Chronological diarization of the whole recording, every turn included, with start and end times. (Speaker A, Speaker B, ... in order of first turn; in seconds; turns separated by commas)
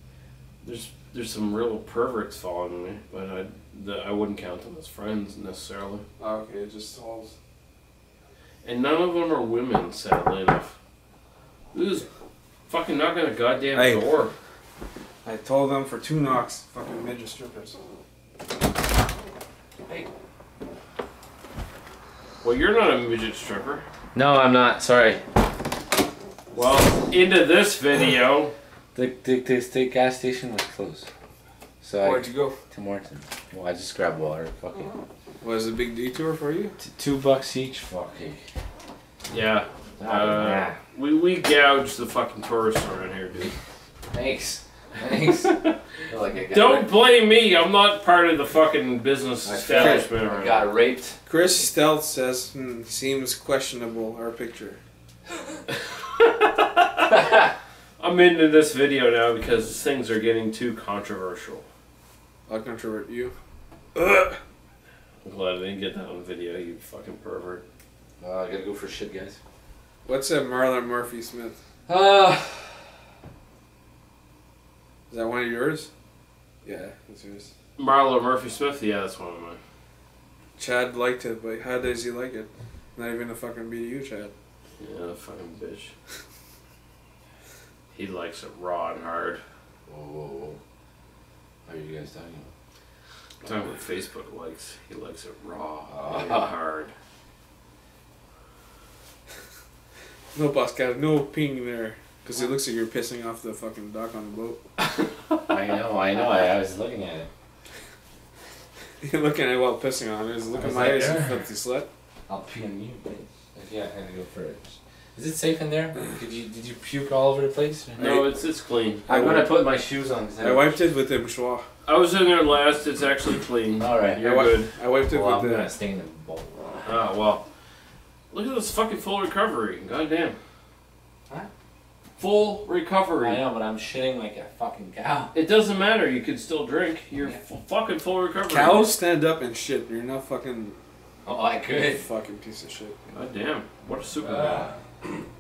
Speaker A: 0.6-6.0, Speaker B: 6.2-7.3, Speaker A: 8.6-10.8, Speaker A: 11.7-12.1, Speaker A: 12.7-14.3, Speaker B: 13.7-14.1, Speaker B: 15.2-17.8, Speaker A: 22.4-23.9, Speaker C: 24.1-25.2, Speaker A: 26.5-28.5, Speaker C: 28.9-31.1, Speaker C: 31.8-35.0, Speaker B: 32.0-32.6, Speaker B: 35.4-36.8, Speaker C: 36.8-38.4, Speaker A: 39.3-43.5, Speaker C: 40.0-40.8, Speaker C: 44.1-46.9, Speaker A: 45.4-45.7, Speaker A: 46.5-50.7, Speaker C: 49.4-51.5, Speaker B: 49.7-50.1, Speaker B: 51.2-54.8, Speaker A: 55.8-57.3, Speaker A: 58.0-61.7, Speaker B: 62.5-63.4, Speaker B: 64.0-64.4, Speaker A: 65.2-67.6, Speaker C: 68.2-69.4, Speaker B: 70.0-71.6, Speaker C: 71.9-72.8, Speaker B: 75.1-75.9, Speaker B: 76.6-77.5, Speaker A: 77.8-79.6, Speaker B: 80.6-84.3, Speaker A: 84.8-85.9, Speaker A: 87.9-89.4, Speaker C: 89.9-90.6, Speaker C: 91.7-92.5, Speaker A: 93.4-96.9, Speaker C: 95.9-96.5, Speaker B: 100.3-104.6, Speaker C: 105.4-107.3, Speaker B: 109.0-111.9, Speaker C: 110.5-111.4, Speaker C: 112.3-118.1, Speaker B: 118.0-118.3, Speaker A: 118.0-119.1, Speaker C: 119.1-120.8, Speaker B: 119.1-119.6, Speaker B: 120.4-121.7, Speaker A: 121.9-124.7, Speaker C: 123.8-124.3, Speaker B: 124.2-125.7, Speaker C: 125.0-127.0, Speaker A: 126.8-127.5, Speaker A: 128.3-130.4, Speaker A: 132.2-133.4, Speaker C: 133.2-135.3, Speaker A: 135.3-138.9, Speaker B: 138.5-140.8, Speaker C: 141.2-142.1, Speaker B: 141.8-143.1, Speaker A: 143.1-144.7, Speaker C: 144.2-144.8